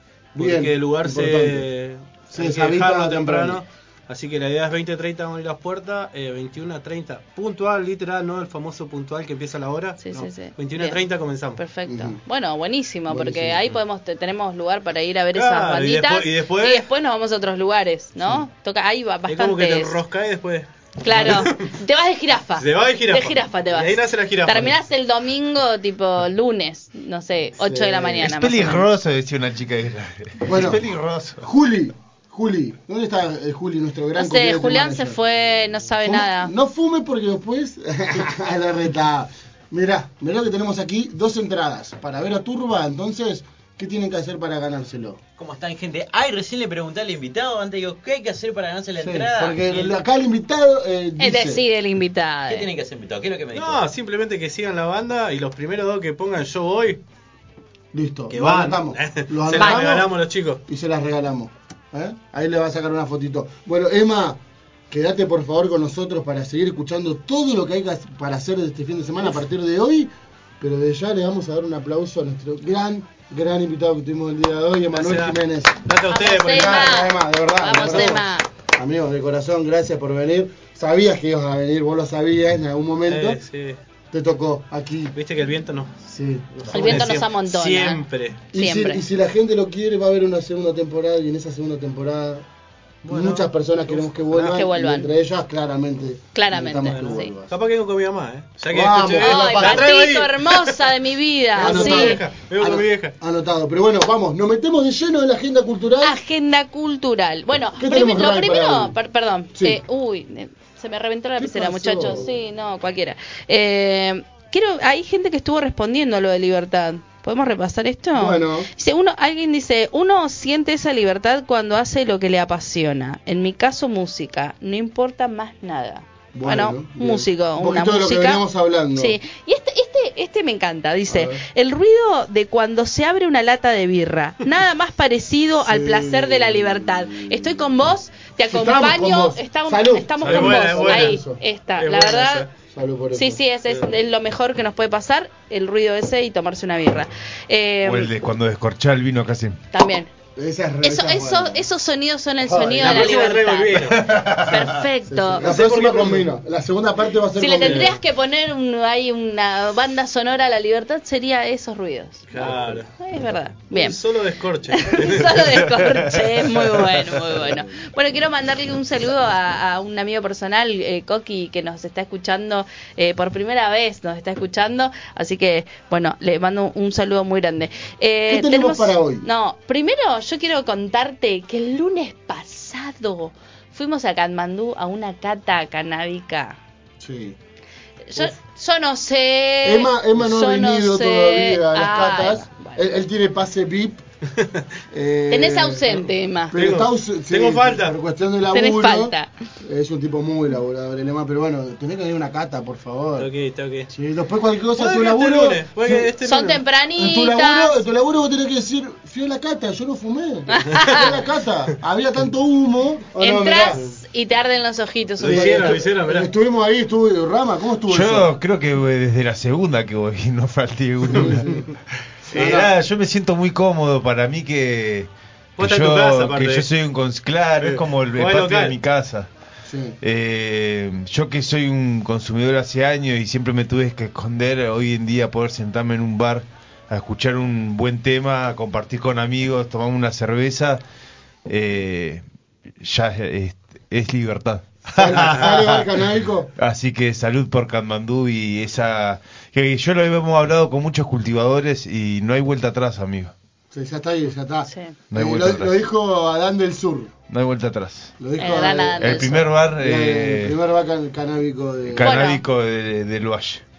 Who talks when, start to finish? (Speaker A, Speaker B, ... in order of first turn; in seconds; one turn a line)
Speaker A: 0.3-1.7
Speaker B: 0.4-11.6
Speaker A: 2.3-3.6
Speaker C: 10.0-11.0
Speaker C: 11.6-20.0
Speaker A: 11.9-12.2
Speaker A: 13.1-13.7
Speaker B: 15.3-16.9
Speaker A: 18.2-18.5
Speaker B: 19.3-21.7
Speaker C: 21.0-28.9
Speaker B: 22.6-24.8
Speaker A: 27.6-28.3
Speaker D: 28.2-31.4
Speaker A: 30.4-30.8
Speaker A: 31.4-35.2
Speaker C: 34.2-36.5
Speaker A: 36.0-45.2
Speaker E: 45.4-50.0
Speaker A: 49.0-51.6
Speaker C: 51.2-52.7
Speaker E: 52.5-53.9
Speaker B: 53.5-57.0
Speaker A: 57.9-60.1
Speaker B: 58.3-60.6
Speaker A: 60.7-75.9
Speaker B: 74.9-76.9
Speaker C: 76.1-78.5
Speaker A: 76.4-83.4
Speaker B: 83.1-83.8
Speaker A: 84.1-85.1
Speaker B: 85.1-86.0
Speaker A: 86.0-87.1
Speaker B: 86.6-88.5
Speaker C: 86.7-89.0
Speaker A: 88.5-92.5
Speaker B: 93.0-94.6
Speaker A: 93.1-97.5
Speaker C: 94.3-95.1
Speaker C: 96.3-97.3
Speaker B: 96.9-100.9
Speaker A: 98.7-99.9
Speaker C: 99.1-102.2
Speaker B: 101.5-103.1
Speaker A: 101.6-106.2
Speaker C: 106.0-128.4
Speaker A: 107.8-109.0
Speaker A: 109.5-109.8
Speaker A: 111.4-112.3
Speaker A: 118.1-118.7
Speaker A: 126.3-129.2
Speaker C: 128.9-142.5
Speaker A: 131.1-131.4
Speaker A: 135.6-137.9
Speaker A: 138.5-141.4
Speaker B: 140.2-141.2
Speaker B: 141.8-142.5
Speaker A: 142.7-143.4
Speaker C: 143.1-148.1
Speaker D: 147.8-149.6
Speaker C: 149.7-150.1
Speaker A: 150.4-151.7
Speaker C: 150.8-155.5
Speaker A: 152.4-153.2
Speaker B: 152.8-154.6
Speaker D: 154.0-154.6
Speaker A: 155.1-158.0
Speaker B: 155.4-156.3
Speaker C: 157.4-164.0
Speaker B: 157.6-157.9
Speaker B: 162.3-162.9
Speaker B: 163.7-165.9
Speaker C: 164.7-186.6
Speaker A: 178.3-179.3
Speaker A: 187.0-187.4
Speaker C: 188.1-192.9
Speaker A: 189.6-194.1
Speaker B: 194.4-194.6
Speaker A: 194.9-203.3
Speaker C: 195.3-196.6
Speaker B: 196.6-197.9
Speaker C: 198.5-199.3
Speaker B: 203.2-203.9
Speaker A: 203.9-206.1
Speaker B: 204.8-206.6
Speaker C: 206.2-207.8
Speaker A: 206.9-213.9
Speaker C: 210.5-211.1
Speaker B: 210.7-211.0
Speaker C: 213.2-215.8
Speaker B: 215.2-216.3
Speaker A: 215.2-218.3
Speaker D: 217.9-221.6
Speaker A: 221.1-221.6
Speaker B: 221.1-221.6
Speaker A: 222.3-222.7
Speaker D: 222.3-229.3
Speaker B: 222.3-222.6
Speaker B: 225.6-226.7
Speaker B: 227.6-228.8
Speaker A: 229.7-230.0
Speaker D: 230.0-240.8
Speaker D: 241.5-242.2
Speaker D: 242.8-245.9
Speaker A: 244.9-246.5
Speaker D: 246.6-253.3
Speaker A: 253.7-257.1
Speaker C: 254.7-254.9
Speaker D: 255.1-255.8
Speaker D: 257.3-258.1
Speaker A: 258.2-262.2
Speaker C: 258.4-259.4
Speaker D: 259.0-260.6
Speaker D: 261.9-263.6
Speaker C: 262.0-262.4